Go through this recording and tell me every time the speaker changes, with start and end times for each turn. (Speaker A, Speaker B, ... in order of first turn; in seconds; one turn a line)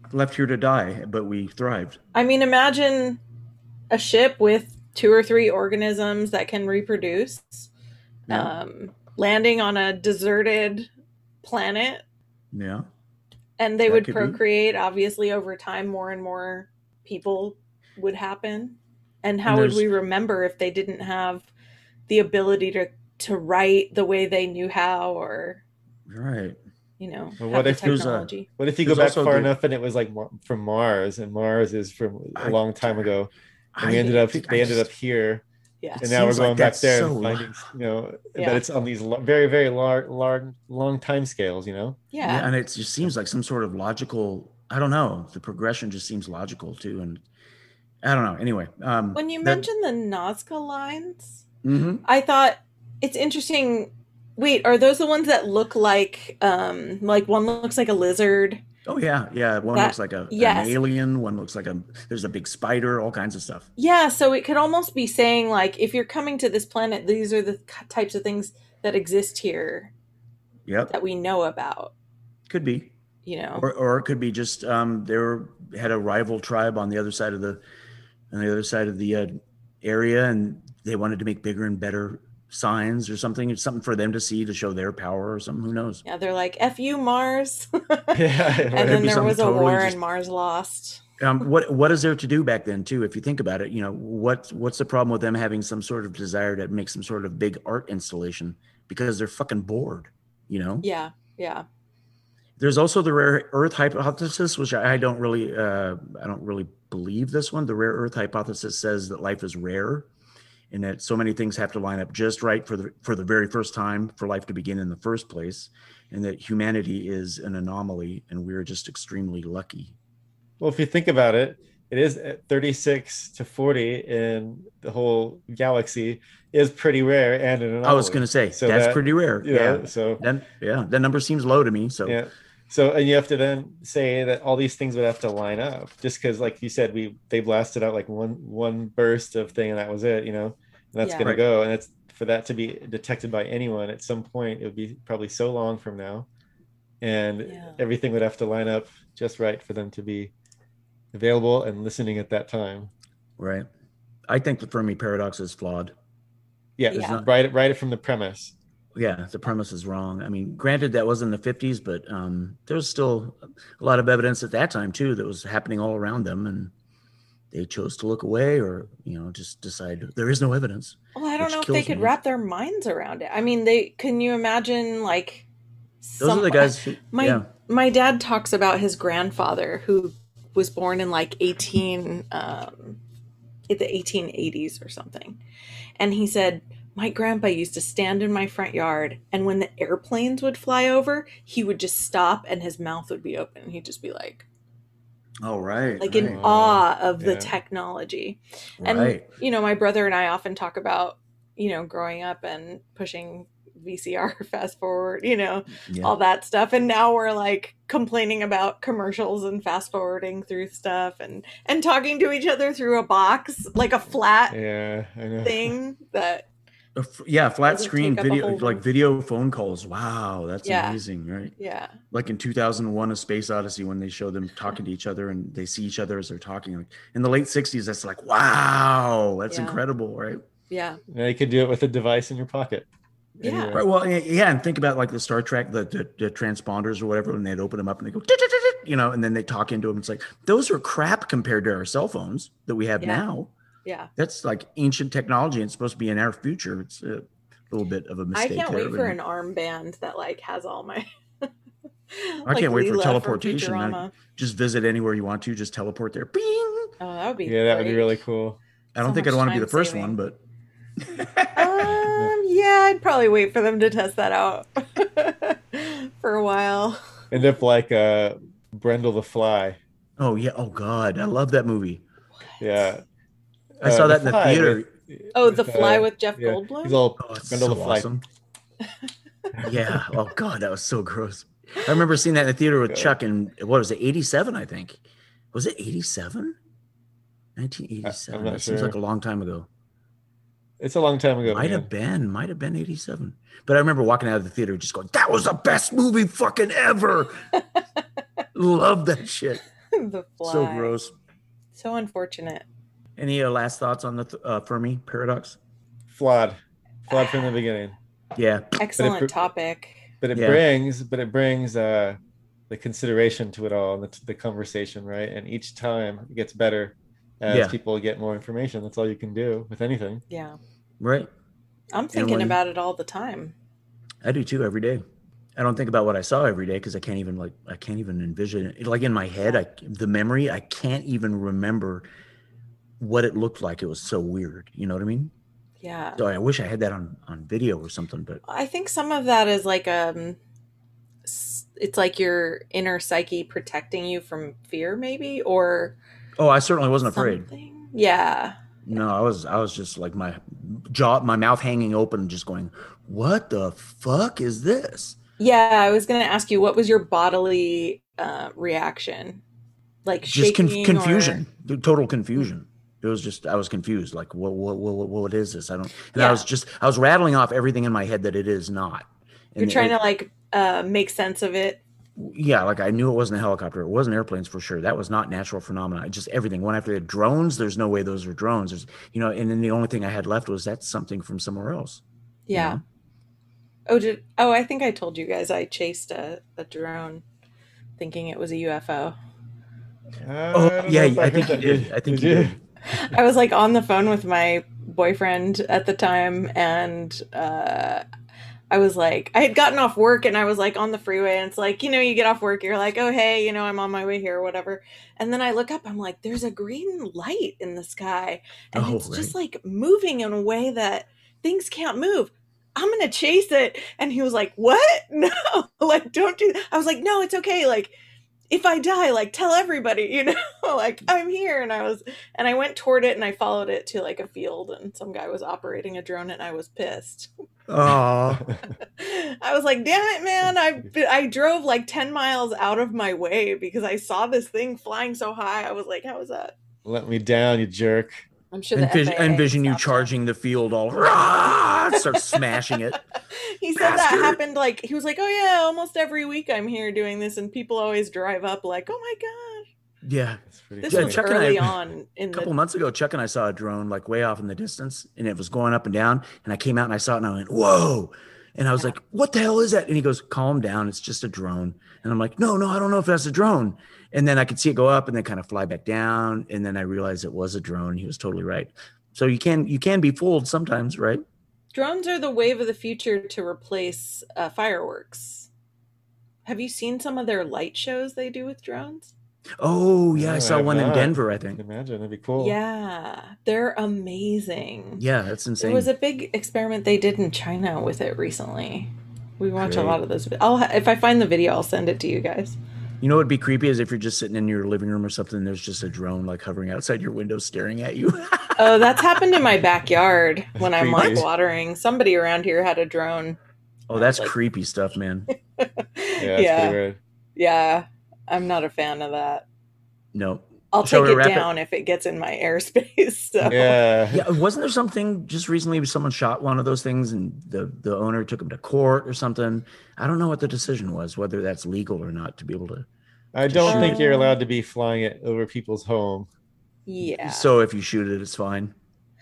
Speaker A: 0.1-2.0
Speaker B: 2.1-3.2
Speaker B: 3.9-7.7
Speaker B: 8.3-10.9
Speaker B: 11.4-12.0
Speaker A: 12.5-12.9
Speaker B: 13.6-21.5
Speaker A: 13.8-14.4
Speaker A: 19.4-19.9
Speaker B: 22.1-25.6
Speaker A: 26.1-26.6
Speaker B: 27.0-28.5
Speaker C: 27.4-28.0
Speaker A: 27.7-28.3
Speaker C: 28.6-35.4
Speaker A: 28.8-29.5
Speaker A: 32.4-33.1
Speaker A: 33.7-34.9
Speaker B: 35.8-36.1
Speaker A: 36.0-37.7
Speaker C: 36.0-42.0
Speaker B: 38.4-38.6
Speaker B: 42.1-42.5
Speaker A: 42.2-47.2
Speaker A: 48.0-49.6
Speaker B: 49.1-51.4
Speaker A: 51.6-52.0
Speaker B: 52.0-58.6
Speaker A: 58.8-63.7
Speaker B: 59.7-60.8
Speaker B: 63.8-69.9
Speaker A: 70.7-70.9
Speaker B: 70.9-71.9
Speaker A: 72.5-72.9
Speaker B: 73.2-73.7
Speaker A: 73.5-77.6
Speaker A: 78.3-86.0
Speaker B: 86.0-91.0
Speaker C: 88.1-89.2
Speaker A: 88.7-90.0
Speaker A: 91.2-100.9
Speaker B: 100.8-101.6
Speaker A: 102.6-110.1
Speaker A: 110.7-119.9
Speaker C: 120.6-130.2
Speaker A: 127.8-132.2
Speaker C: 132.1-146.3
Speaker B: 141.0-141.3
Speaker C: 147.0-150.3
Speaker B: 147.4-147.8
Speaker C: 151.1-152.9
Speaker A: 153.4-153.7
Speaker A: 154.3-155.9
Speaker C: 156.8-158.5
Speaker B: 156.9-157.2
Speaker A: 156.9-157.2
Speaker A: 158.9-166.7
Speaker A: 167.5-172.1
Speaker B: 171.1-175.5
Speaker B: 176.0-183.0
Speaker A: 176.2-177.5
Speaker B: 183.7-185.4
Speaker B: 186.0-194.4
Speaker A: 195.4-196.4
Speaker B: 196.0-214.6
Speaker C: 196.2-197.6
Speaker A: 198.8-199.3
Speaker A: 205.8-206.1
Speaker C: 214.5-215.8
Speaker B: 215.4-216.4
Speaker A: 216.9-221.6
Speaker B: 217.7-218.8
Speaker B: 220.6-221.0
Speaker B: 221.6-222.0
Speaker A: 222.1-230.4
Speaker B: 229.5-229.8
Speaker B: 230.7-231.0
Speaker C: 231.1-233.9
Speaker B: 233.4-233.8
Speaker A: 233.7-243.5
Speaker B: 243.8-244.1
Speaker A: 244.2-249.2
Speaker B: 248.3-251.5
Speaker B: 252.1-254.1
Speaker A: 252.4-256.9
Speaker B: 257.0-258.2
Speaker C: 257.4-258.6
Speaker A: 258.9-260.4
Speaker B: 259.0-260.2
Speaker A: 261.0-262.1
Speaker B: 261.6-267.0
Speaker C: 261.9-262.3
Speaker C: 267.3-269.8
Speaker A: 270.2-272.0
Speaker B: 272.4-272.9
Speaker C: 272.6-273.0
Speaker C: 273.8-278.1
Speaker A: 273.8-274.9
Speaker B: 275.3-277.0
Speaker A: 277.2-278.2
Speaker C: 279.6-280.2
Speaker A: 279.6-285.0
Speaker C: 282.9-283.1
Speaker A: 285.5-286.5
Speaker A: 287.6-289.7
Speaker C: 288.0-289.0
Speaker C: 290.8-291.9
Speaker A: 291.4-297.4
Speaker A: 298.5-299.6
Speaker B: 299.9-300.9
Speaker A: 300.4-301.1
Speaker B: 301.7-302.6
Speaker A: 303.2-305.6
Speaker C: 306.1-307.9
Speaker B: 307.1-307.6
Speaker A: 308.4-308.8
Speaker B: 308.8-310.1
Speaker C: 309.0-309.3
Speaker C: 310.2-312.2
Speaker A: 310.3-310.6
Speaker C: 312.7-320.2
Speaker A: 317.5-317.7
Speaker B: 320.3-320.6
Speaker A: 321.0-321.3
Speaker B: 321.9-323.5
Speaker A: 322.1-322.6
Speaker A: 324.2-325.0
Speaker A: 325.6-332.1
Speaker A: 333.0-335.3
Speaker B: 335.8-336.2
Speaker A: 336.1-338.4
Speaker B: 338.4-340.4
Speaker B: 341.2-346.0
Speaker A: 346.4-347.5
Speaker B: 347.1-348.6
Speaker A: 348.8-355.2
Speaker B: 355.4-359.4
Speaker B: 360.0-361.4
Speaker A: 360.3-369.9
Speaker B: 366.1-366.4
Speaker B: 369.6-371.8
Speaker A: 372.2-382.0
Speaker B: 382.5-382.8
Speaker A: 382.5-382.8
Speaker B: 383.9-387.2
Speaker B: 388.0-389.1
Speaker C: 390.2-392.6
Speaker A: 390.5-392.5
Speaker B: 392.8-398.0
Speaker B: 398.7-417.9
Speaker A: 408.7-409.3
Speaker B: 418.5-427.3
Speaker A: 427.7-428.5
Speaker B: 428.8-436.5
Speaker C: 436.8-438.2
Speaker B: 438.5-440.1
Speaker A: 438.7-443.0
Speaker B: 441.9-442.8
Speaker B: 443.3-449.7
Speaker A: 443.7-444.4
Speaker A: 450.0-451.7
Speaker C: 450.5-451.2
Speaker B: 450.8-452.5
Speaker A: 452.3-471.2
Speaker B: 471.7-475.5
Speaker B: 476.4-479.1
Speaker A: 479.6-481.6
Speaker C: 480.1-482.6
Speaker B: 482.4-485.0
Speaker A: 485.0-485.9
Speaker B: 485.6-492.6
Speaker A: 489.6-490.0
Speaker A: 493.0-499.2
Speaker B: 498.6-503.4
Speaker A: 500.6-501.3
Speaker A: 503.9-505.3
Speaker B: 503.9-504.3
Speaker B: 505.6-506.8
Speaker C: 506.2-507.0
Speaker B: 507.4-509.4
Speaker A: 510.1-511.5
Speaker B: 510.7-513.8
Speaker C: 513.5-514.3
Speaker A: 514.1-522.9
Speaker C: 523.3-526.3
Speaker A: 523.5-524.0
Speaker B: 523.6-524.3
Speaker B: 526.9-527.5
Speaker A: 527.2-528.7